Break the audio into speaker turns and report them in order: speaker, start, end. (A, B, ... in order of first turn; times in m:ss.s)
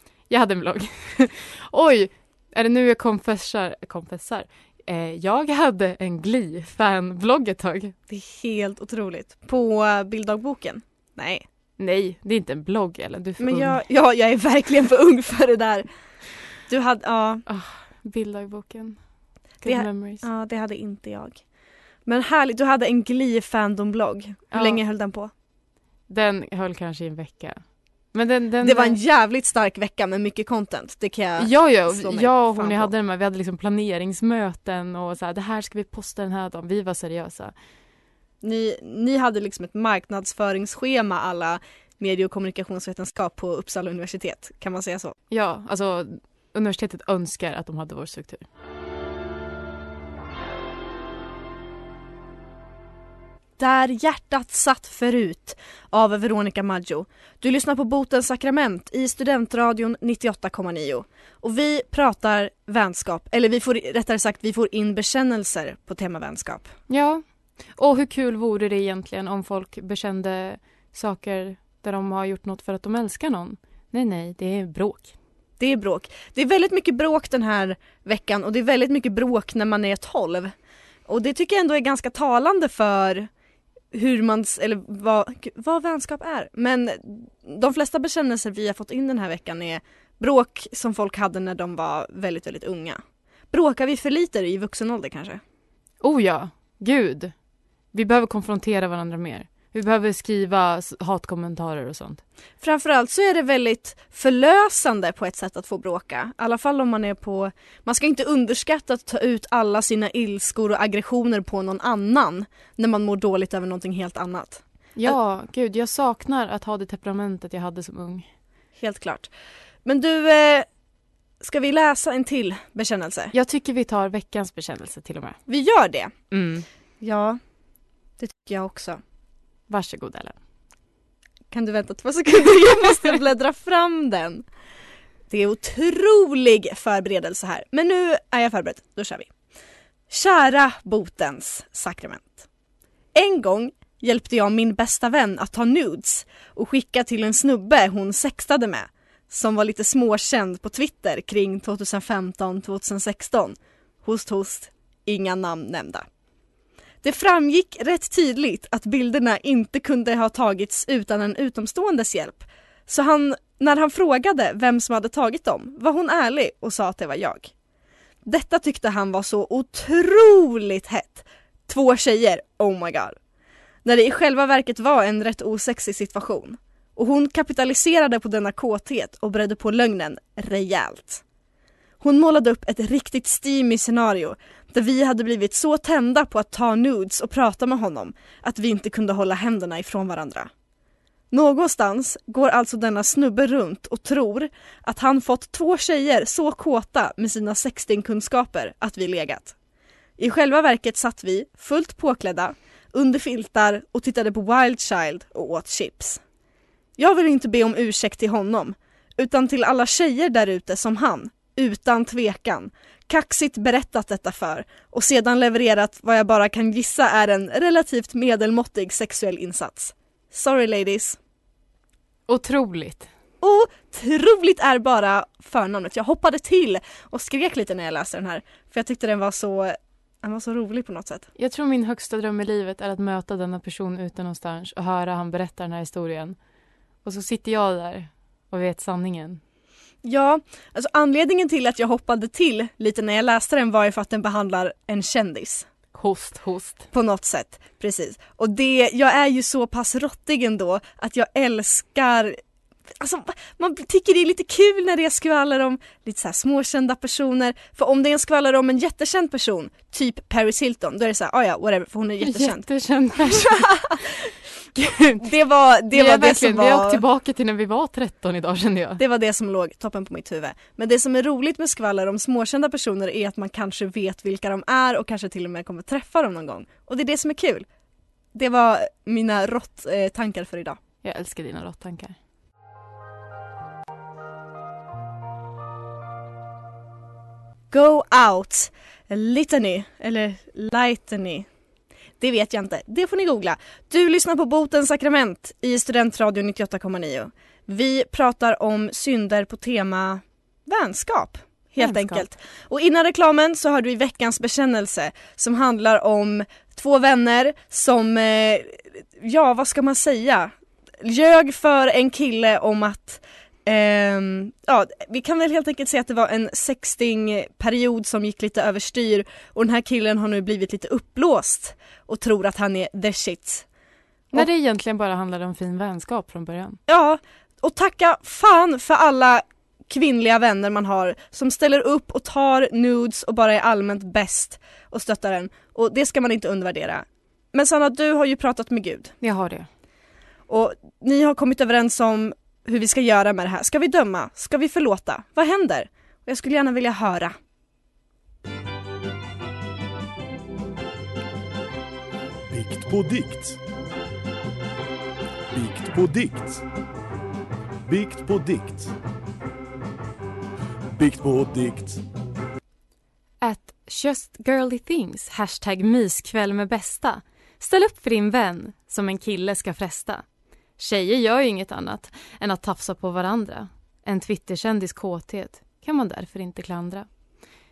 0:00.3-0:08.0 A
0:08.1-0:11.4 B
0:11.8-0:13.8 A
0:13.4-0:15.9 B
0:16.7-0:17.4 B
0:17.5-0:19.0 A
0:19.6-0:20.2 A
0:19.6-0:21.4 B
0:22.1-0:25.3 B
0:24.5-0:24.8 A
0:26.1-0:29.0 A
0:28.6-0:32.9 B
0:31.4-0:37.5 A
0:38.4-0:45.2 B
0:45.3-0:48.5 A
0:53.6-1:06.7 B
1:06.9-1:07.2 A
1:07.8-1:15.1 A
1:15.6-1:20.5 B
1:21.1-1:23.3 B
1:23.9-1:35.4 B
1:36.0-1:37.3 A
1:37.9-1:42.2 A
1:42.6-1:55.2 B
1:55.0-1:58.3 A
1:58.8-1:59.3 B
1:59.8-2:00.7 B
2:01.4-2:03.3 B
2:03.3-2:05.4 A
2:05.5-2:06.1 B
2:06.3-2:06.7 A
2:07.0-2:07.4 B
2:08.2-2:09.0 B
2:09.7-2:10.4 A
2:11.5-2:14.4 B
2:15.3-2:19.3 B
2:20.1-2:22.5 B
2:23.1-2:36.1 B
2:37.0-2:47.5 B
2:48.2-2:53.2 B
2:53.8-3:01.2 B
3:02.0-3:10.5 B
3:11.3-3:19.6 B
3:20.2-3:26.2 B
3:27.0-3:41.2 B
3:42.3-3:43.1 A
3:43.4-3:51.3 B
3:51.4-3:56.4 A
3:57.0-3:59.4 A
4:00.0-4:05.7 B
4:05.9-4:06.8 A
4:06.9-4:12.4 B
4:13.0-4:22.7 B
4:22.2-4:23.9 A
4:23.3-4:24.3 B
4:24.8-4:25.2 A
4:25.2-4:27.0 B
4:25.9-4:29.0 A
4:29.0-4:37.7 B
4:38.3-4:40.8 B
4:41.0-4:42.2 A
4:47.7-4:51.5 B
4:52.2-5:23.6 B
5:01.8-5:02.2 A
5:24.3-5:26.8 A
5:26.9-5:39.1 B
5:39.2-5:39.7 A
5:40.5-5:47.4 B
5:52.5-5:53.6 C
5:55.5-5:56.6 C
5:57.9-5:58.9 C
6:01.0-6:02.0 C
6:03.4-6:10.2 A
6:10.8-6:17.1 A